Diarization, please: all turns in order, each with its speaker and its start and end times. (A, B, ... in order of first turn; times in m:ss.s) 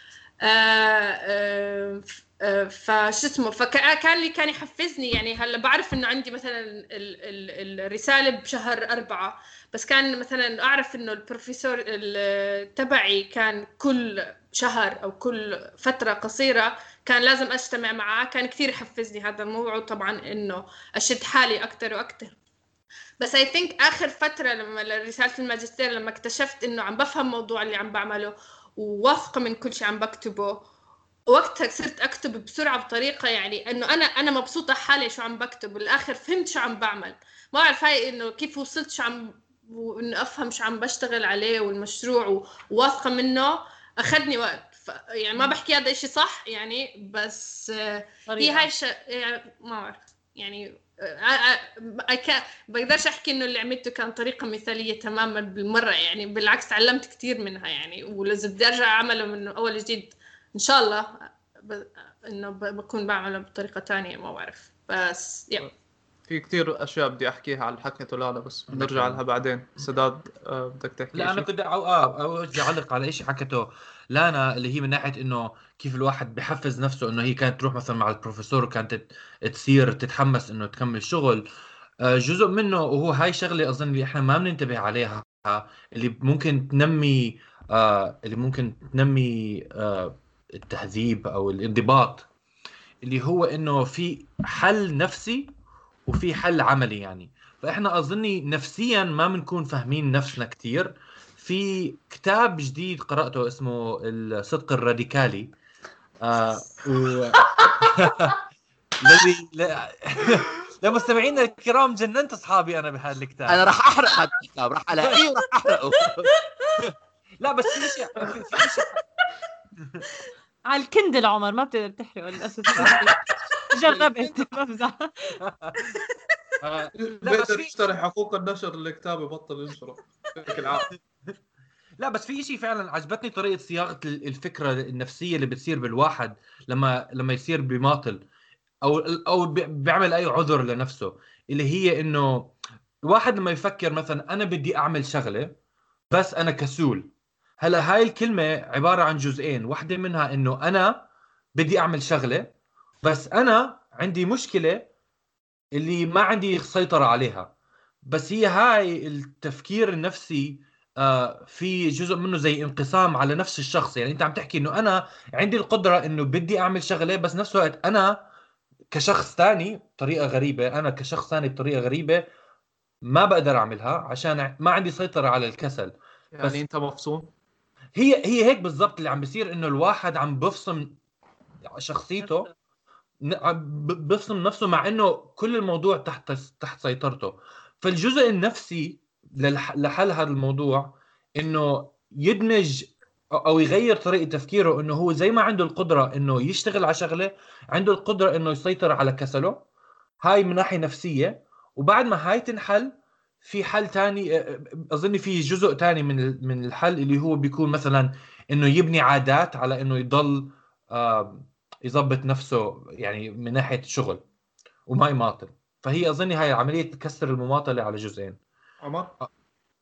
0:00.4-0:22.3 A
0:23.2-0:30.6 A
0:31.3-1:05.7 A
0:48.3-0:48.7 B
1:06.3-1:11.5 C
1:08.7-1:09.2 D
1:11.1-1:21.4 D
1:22.0-1:32.3 D
1:33.0-1:35.5 D
1:36.0-1:45.5 D
1:46.2-1:48.3 D
1:49.0-1:53.7 D
1:53.5-1:56.3 E
1:57.4-1:58.9 D
1:59.8-2:00.0 D
2:00.7-2:03.1 B
2:03.7-2:05.4 B
2:05.4-2:06.0 D
2:06.6-2:07.8 D
2:07.0-2:10.9 C
2:12.0-2:18.2 D
2:18.8-2:22.5 D
2:23.0-2:25.5 D
2:26.1-2:31.0 D
2:31.6-2:34.9 D
2:35.8-2:37.5 D
2:38.0-2:48.1 D
2:48.9-2:52.2 D
2:53.1-2:56.6 D
2:56.3-2:57.3 C
2:58.0-3:00.9 D
3:01.6-3:02.5 D
3:03.3-3:19.6 D
3:20.2-3:34.2 D
3:34.9-3:38.4 D
3:38.8-3:39.1 C